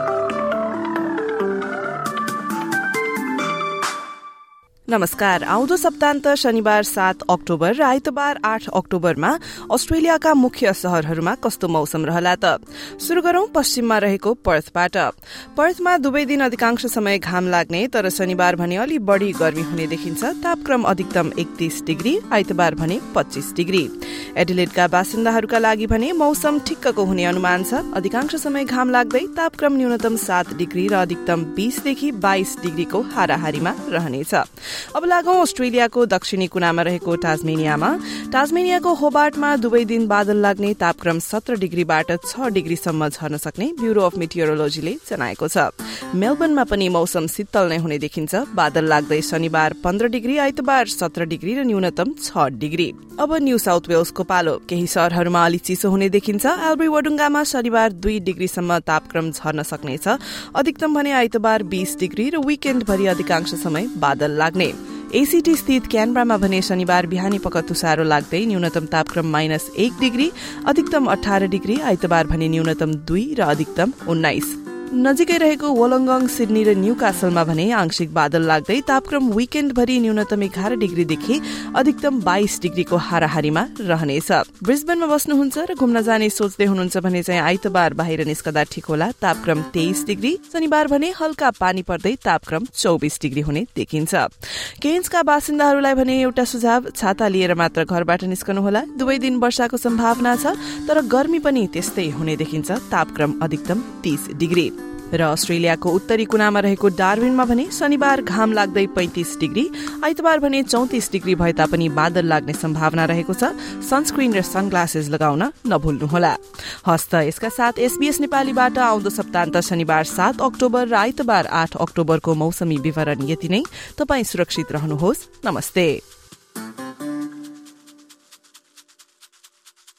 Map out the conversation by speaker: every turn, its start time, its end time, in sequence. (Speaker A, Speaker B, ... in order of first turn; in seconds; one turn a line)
Speaker A: 4.9-126.0